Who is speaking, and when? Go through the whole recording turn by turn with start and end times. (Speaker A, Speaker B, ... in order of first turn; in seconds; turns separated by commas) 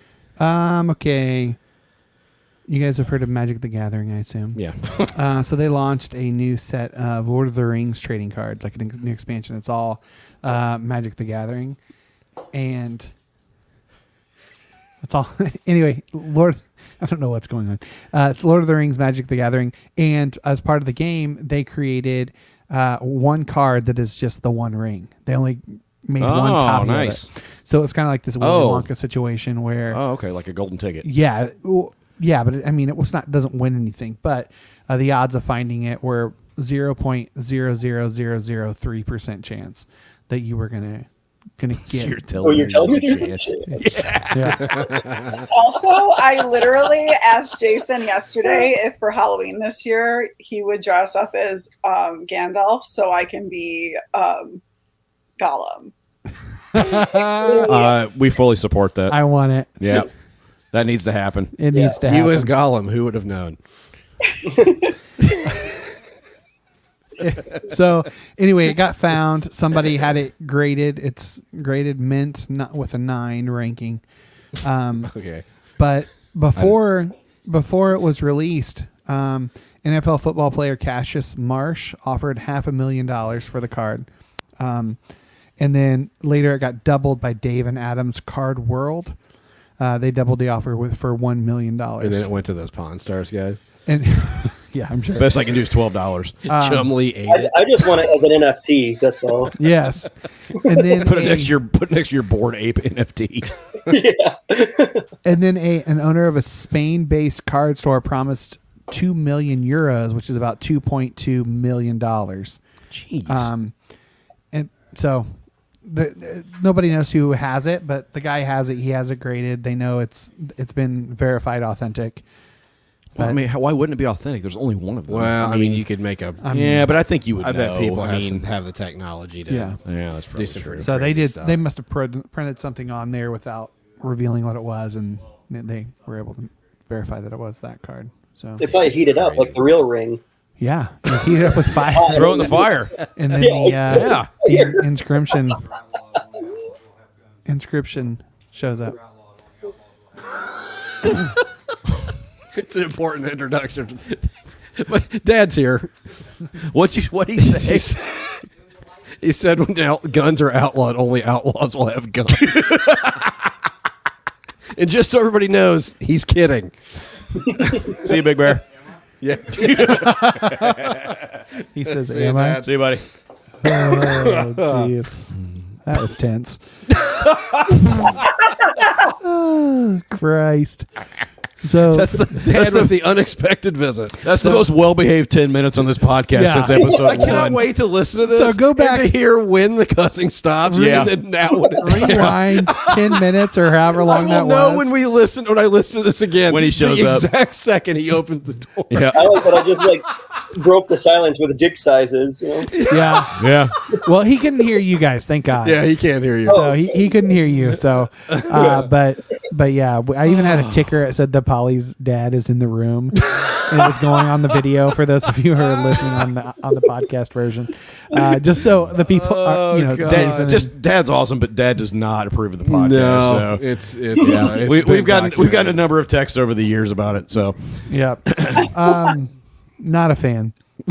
Speaker A: 0.4-1.6, Speaker A: 2.7-11.8, Speaker B: 4.5-5.1, Speaker A: 12.5-13.1, Speaker A: 15.0-30.0, Speaker B: 26.2-27.3, Speaker B: 28.4-28.9, Speaker B: 29.9-31.1, Speaker A: 31.0-41.1, Speaker A: 41.6-42.8, Speaker B: 41.8-45.0, Speaker C: 42.4-43.8, Speaker A: 43.7-44.7, Speaker D: 44.7-45.4, Speaker E: 45.5-54.6, Speaker E: 55.4-55.9, Speaker A: 56.7-57.7, Speaker E: 56.9-58.0, Speaker B: 57.6-59.2, Speaker A: 59.1-60.0, Speaker B: 59.8-60.1, Speaker B: 60.7-61.5, Speaker A: 61.6-62.5, Speaker D: 62.0-63.6, Speaker A: 67.2-74.0, Speaker A: 74.6-75.2, Speaker D: 75.1-75.5, Speaker A: 75.8-84.1, Speaker A: 84.6-85.0, Speaker A: 85.6-89.2, Speaker A: 89.8-92.3, Speaker D: 92.0-93.6, Speaker A: 93.9-95.5, Speaker B: 95.2-96.5, Speaker A: 96.5-96.9, Speaker D: 96.5-97.8, Speaker C: 97.3-99.5, Speaker A: 99.6-101.5, Speaker B: 100.9-103.5, Speaker C: 103.9-105.0, Speaker A: 105.2-112.6, Speaker B: 112.9-113.5, Speaker A: 113.3-113.8, Speaker A: 114.5-115.3, Speaker A: 115.8-122.2, Speaker B: 123.2-125.9, Speaker D: 125.1-126.4, Speaker A: 126.4-126.9, Speaker B: 126.5-128.5, Speaker D: 127.4-129.8, Speaker A: 129.5-129.8, Speaker B: 129.8-130.9, Speaker D: 130.3-131.6, Speaker A: 130.8-138.7, Speaker C: 138.6-140.2, Speaker D: 138.7-139.6, Speaker A: 140.6-142.6, Speaker C: 141.9-142.7, Speaker B: 142.1-142.9, Speaker A: 143.2-145.6, Speaker C: 143.4-144.8, Speaker B: 143.9-144.3, Speaker A: 147.5-149.0, Speaker D: 152.6-155.9, Speaker B: 156.6-158.0, Speaker D: 157.4-158.0, Speaker D: 159.2-162.8, Speaker B: 162.4-163.1, Speaker D: 164.8-166.8, Speaker D: 167.5-168.1, Speaker B: 168.0-168.6, Speaker D: 169.2-170.3, Speaker B: 169.6-171.1, Speaker A: 170.0-170.7, Speaker A: 171.7-172.6, Speaker D: 172.0-172.7, Speaker B: 172.6-173.1, Speaker A: 173.6-175.3, Speaker D: 173.7-174.9, Speaker A: 175.8-176.6, Speaker B: 177.2-177.8, Speaker A: 179.2-180.9, Speaker A: 181.6-182.3, Speaker D: 182.0-184.3, Speaker B: 182.1-183.0, Speaker B: 184.2-187.6, Speaker A: 186.3-187.5, Speaker D: 186.8-193.2, Speaker A: 188.3-189.1, Speaker B: 190.7-191.2, Speaker A: 190.7-191.1, Speaker A: 191.8-194.9, Speaker D: 194.0-199.9, Speaker B: 196.5-197.3, Speaker B: 198.9-199.3, Speaker C: 199.1-202.7, Speaker D: 202.7-203.5, Speaker A: 202.9-203.4, Speaker B: 203.4-203.7, Speaker A: 204.0-205.8, Speaker D: 205.6-206.8, Speaker A: 206.5-220.7, Speaker C: 206.5-207.0, Speaker D: 208.3-208.9, Speaker D: 219.0-220.6, Speaker B: 220.0-228.7, Speaker D: 222.6-225.8, Speaker A: 227.9-230.5